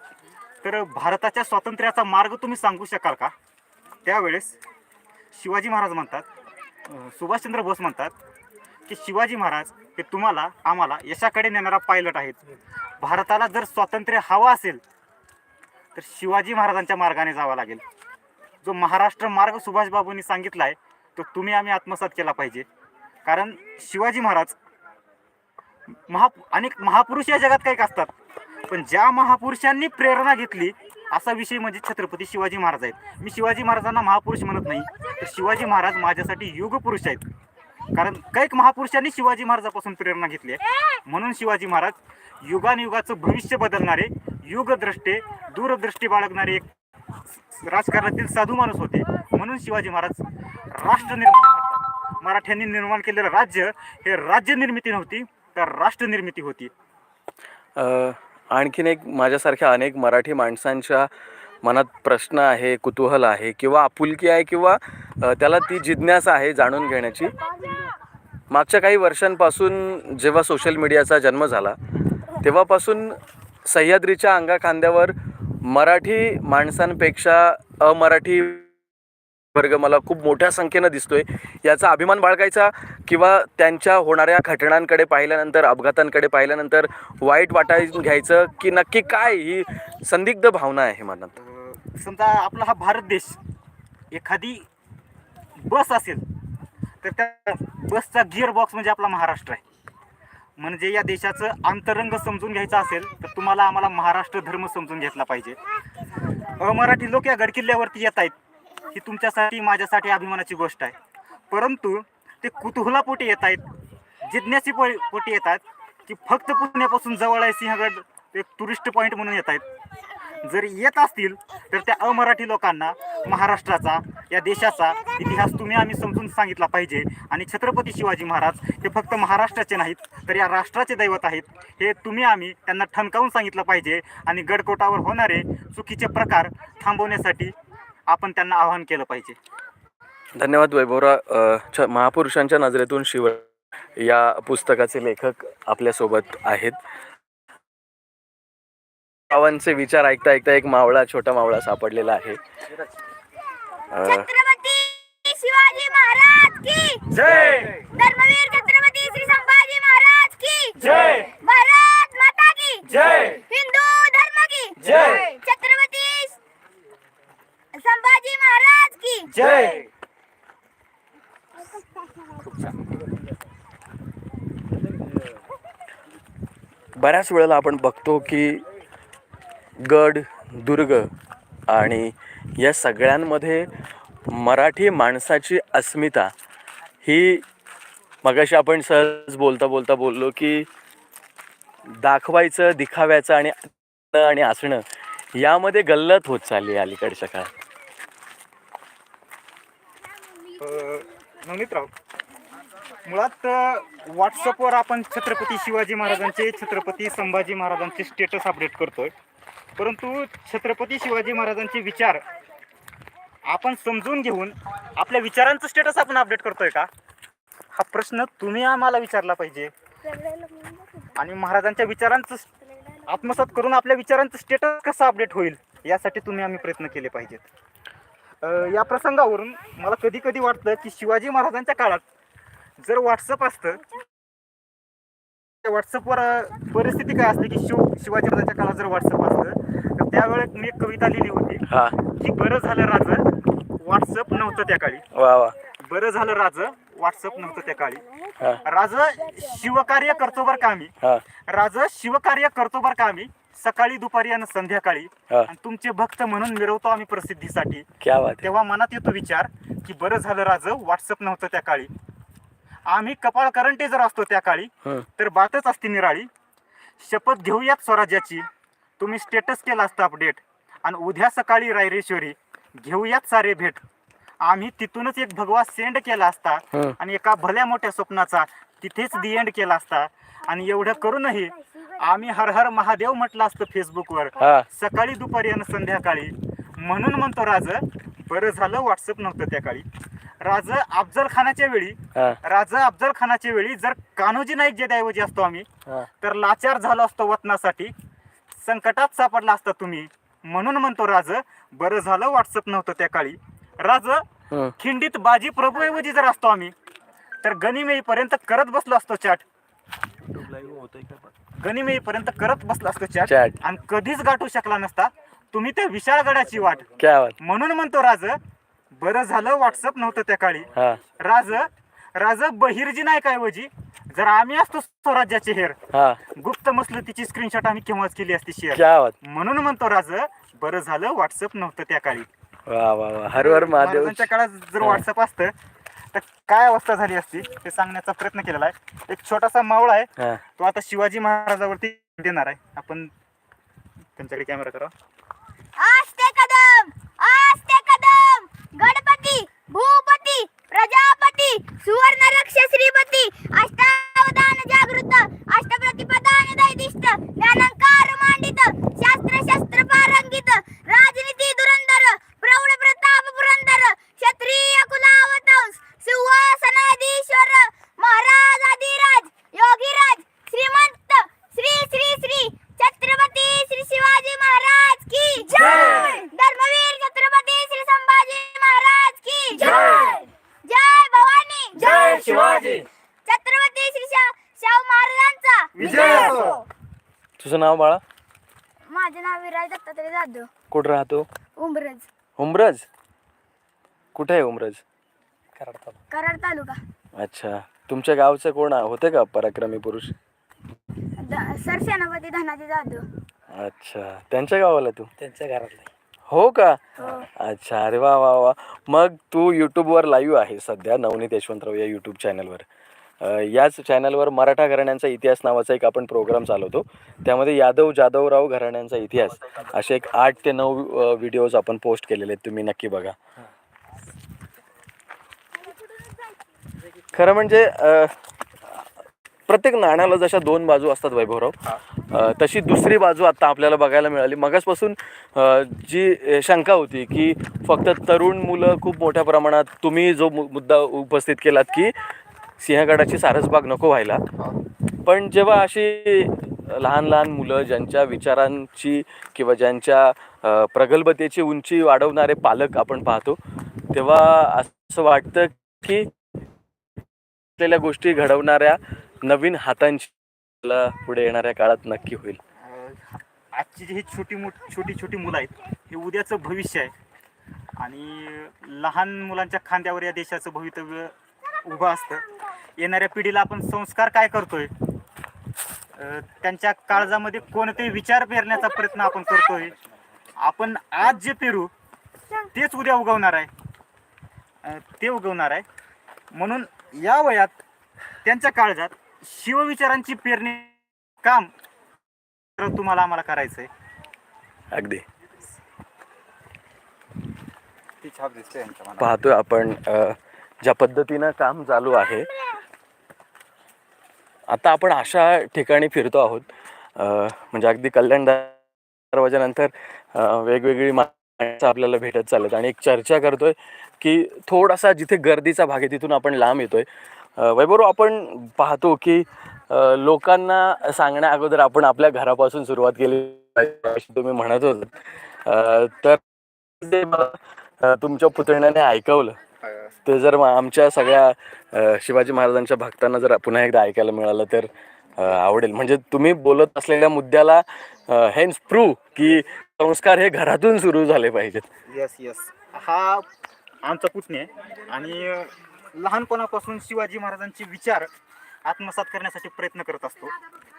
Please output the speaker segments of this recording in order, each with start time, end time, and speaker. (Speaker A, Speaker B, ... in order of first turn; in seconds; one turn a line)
Speaker A: 0.6-3.3
Speaker A: 4.0-4.6
Speaker A: 5.3-6.3
Speaker A: 6.9-8.1
Speaker A: 8.9-12.4
Speaker A: 13.0-14.8
Speaker A: 15.9-17.8
Speaker A: 18.6-22.7
Speaker A: 23.2-24.6
Speaker A: 25.9-28.1
Speaker A: 28.7-37.3
Speaker A: 37.9-46.7
Speaker A: 47.5-56.7
Speaker B: 57.8-61.1
Speaker B: 61.6-67.3
Speaker B: 68.5-71.8
Speaker B: 72.4-78.7
Speaker B: 79.5-91.4
Speaker A: 91.4-93.4
Speaker A: 94.1-94.7
Speaker A: 95.5-96.2
Speaker A: 97.0-99.6
Speaker A: 100.6-105.6
Speaker A: 106.5-108.3
Speaker A: 108.9-111.0
Speaker A: 111.5-113.7
Speaker A: 114.2-119.7
Speaker A: 120.4-137.5
Speaker A: 138.1-139.4
Speaker B: 140.4-146.8
Speaker B: 149.3-152.4
Speaker B: 153.9-154.3
Speaker C: 154.0-157.1
Speaker A: 157.1-157.7
Speaker C: 157.9-162.9
Speaker A: 160.8-161.3
Speaker A: 162.9-163.4
Speaker C: 163.5-166.4
Speaker A: 164.8-165.2
Speaker C: 167.7-169.3
Speaker A: 169.3-169.9
Speaker A: 172.4-172.9
Speaker B: 177.0-178.7
Speaker B: 179.8-181.1
Speaker B: 181.7-183.7
Speaker B: 184.3-186.3
Speaker B: 187.0-187.5
Speaker B: 188.2-190.7
Speaker B: 191.9-194.8
Speaker B: 195.3-197.5
Speaker A: 200.6-201.9
Speaker A: 203.1-209.1
Speaker A: 209.8-212.2
Speaker A: 213.5-216.9
Speaker A: 217.7-219.7
Speaker C: 220.0-221.1
Speaker A: 221.2-222.5
Speaker A: 223.1-227.5
Speaker A: 228.4-232.0
Speaker A: 232.8-233.8
Speaker A: 235.6-245.1
Speaker B: 241.7-242.0
Speaker B: 245.1-245.6
Speaker A: 245.7-248.0
Speaker A: 248.6-250.9
Speaker A: 251.4-257.9
Speaker B: 258.0-258.5
Speaker A: 258.4-261.9
Speaker A: 262.9-266.3
Speaker A: 267.0-268.5
Speaker A: 269.0-273.8
Speaker A: 274.4-289.9
Speaker B: 284.4-284.7
Speaker A: 290.4-295.7
Speaker B: 292.1-292.4
Speaker A: 296.2-297.9
Speaker A: 298.6-304.3
Speaker B: 304.5-304.8
Speaker A: 304.8-306.7
Speaker A: 307.4-309.4
Speaker D: 310.4-311.2
Speaker A: 311.6-318.4
Speaker B: 313.3-313.6
Speaker B: 317.0-317.4
Speaker A: 318.9-332.3
Speaker B: 320.8-321.0
Speaker B: 325.9-326.2
Speaker B: 328.7-329.2
Speaker B: 332.7-335.0
Speaker A: 333.3-335.5
Speaker A: 336.1-343.1
Speaker A: 344.2-344.9
Speaker C: 345.8-382.6
Speaker A: 375.7-376.1
Speaker A: 379.7-380.1
Speaker D: 381.9-382.9
Speaker A: 382.1-382.7
Speaker C: 383.3-386.7
Speaker A: 385.8-386.6
Speaker B: 387.4-388.0
Speaker C: 388.9-390.5
Speaker B: 390.7-391.3
Speaker C: 391.6-392.1
Speaker B: 392.4-392.9
Speaker B: 394.1-394.8
Speaker D: 395.6-396.0
Speaker C: 396.1-396.8
Speaker B: 397.2-400.1
Speaker C: 401.2-403.1
Speaker B: 403.5-405.1
Speaker D: 405.2-405.9
Speaker B: 406.3-412.7
Speaker C: 407.0-407.3
Speaker B: 413.2-423.2
Speaker B: 427.1-428.9
Speaker B: 429.5-442.0
Speaker B: 442.6-444.2
Speaker B: 445.1-453.4
Speaker B: 453.9-456.1
Speaker B: 457.6-462.4
Speaker A: 462.6-466.9
Speaker A: 467.8-472.2
Speaker A: 472.8-474.7
Speaker A: 475.9-479.8
Speaker A: 480.4-481.7
Speaker A: 482.5-483.5
Speaker A: 484.6-485.7
Speaker A: 486.3-487.6
Speaker A: 488.2-491.5
Speaker A: 492.6-493.7
Speaker B: 494.7-495.1
Speaker A: 498.0-499.1
Speaker B: 499.0-502.3
Speaker B: 504.5-508.6
Speaker B: 509.1-526.2
Speaker B: 526.8-529.4
Speaker A: 529.6-529.9
Speaker B: 530.0-541.7
Speaker A: 541.9-543.3
Speaker A: 543.8-548.1
Speaker A: 548.6-550.3